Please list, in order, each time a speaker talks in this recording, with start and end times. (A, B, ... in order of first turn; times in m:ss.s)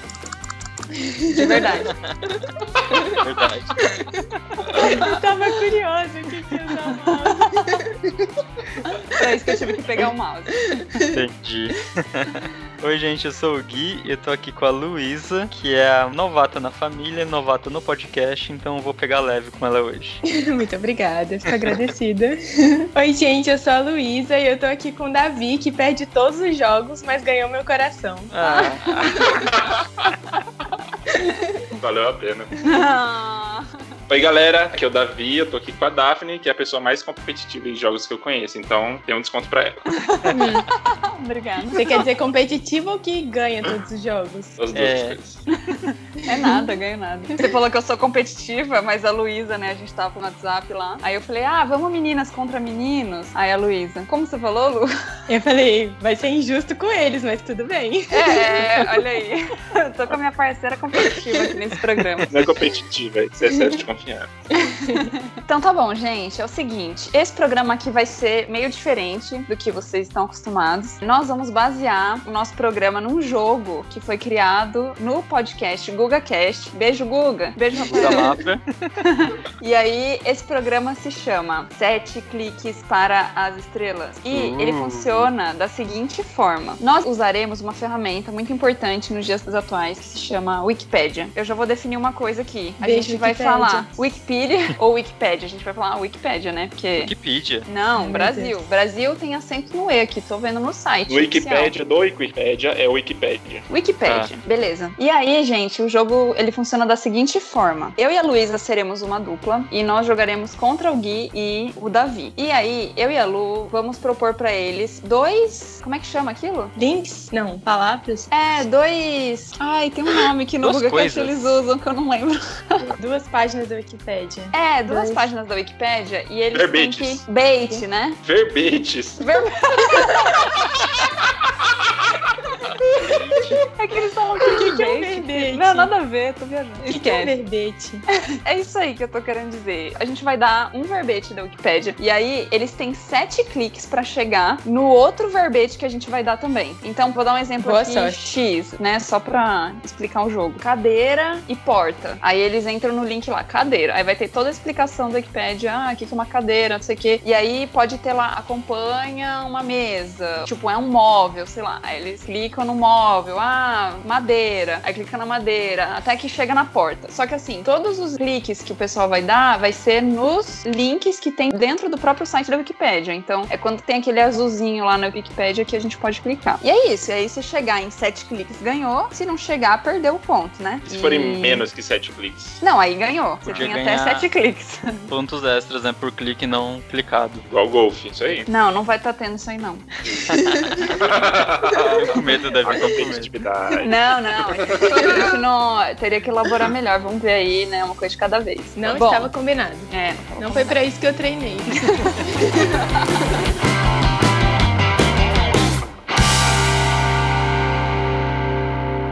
0:01.0-0:01.9 A
0:01.3-0:01.9 B
0:01.9-0:02.2 C
0:02.9-0:03.2 A
0:03.2-0:03.8 C
0:04.7-0:08.0 A
0:04.7-0:05.2 B
0:07.1-0:07.8 B
0:08.8-0:10.6 B
0:10.7-0:11.2 A
0:11.1-0:20.2 C
0:20.3-0:28.3 A
0:28.3-0:29.1 C
0:28.4-0:29.3 B
0:29.0-0:30.0 D
0:31.1-0:31.5 A
0:31.8-0:32.5 D
0:32.6-0:33.7 B
0:34.1-0:39.9 D
0:40.0-0:41.8 B
0:40.3-0:40.7 A
0:41.7-0:44.6 A
0:44.6-0:45.4 D
0:44.7-0:45.2 C
0:45.6-0:54.9 B
0:46.2-0:46.7 A
0:55.3-0:59.0 A
0:58.1-1:02.3 B
1:01.0-1:01.5 A
1:02.3-1:04.3 D
1:04.6-1:05.1 A
1:05.4-1:18.4 B
1:17.8-1:18.6 C
1:19.0-1:37.1 B
1:24.3-1:25.3 C
1:32.8-1:33.9 A
1:37.0-1:37.7 C
1:37.6-1:41.7 B
1:38.0-1:38.6 A
1:41.1-1:43.6 D
1:43.7-1:56.8 B
1:44.0-1:44.3 C
1:56.8-1:58.3 A
1:58.3-2:02.9 B
2:00.6-2:01.6 C
2:03.0-2:05.2 A
2:04.5-2:08.2 B
2:06.5-2:07.2 D
2:08.2-2:09.3 D
2:09.2-2:10.5 B
2:10.6-2:10.9 D
2:13.0-2:13.6 C
2:13.7-2:17.3 B
2:14.4-2:15.9 A
2:16.9-2:18.0 A
2:18.4-3:01.6 B
2:27.6-2:28.3 A
3:00.8-3:02.6 D
3:02.6-3:05.1 B
3:03.4-3:04.3 C
3:05.1-3:07.5 C
3:07.5-3:08.5 D
3:08.5-3:09.8 B
3:10.9-3:15.3 D
3:11.9-3:12.3 A
3:11.9-3:13.3 C
3:13.8-3:19.3 B
3:15.1-3:15.4 A
3:18.8-3:22.8 A
3:19.9-3:20.8 B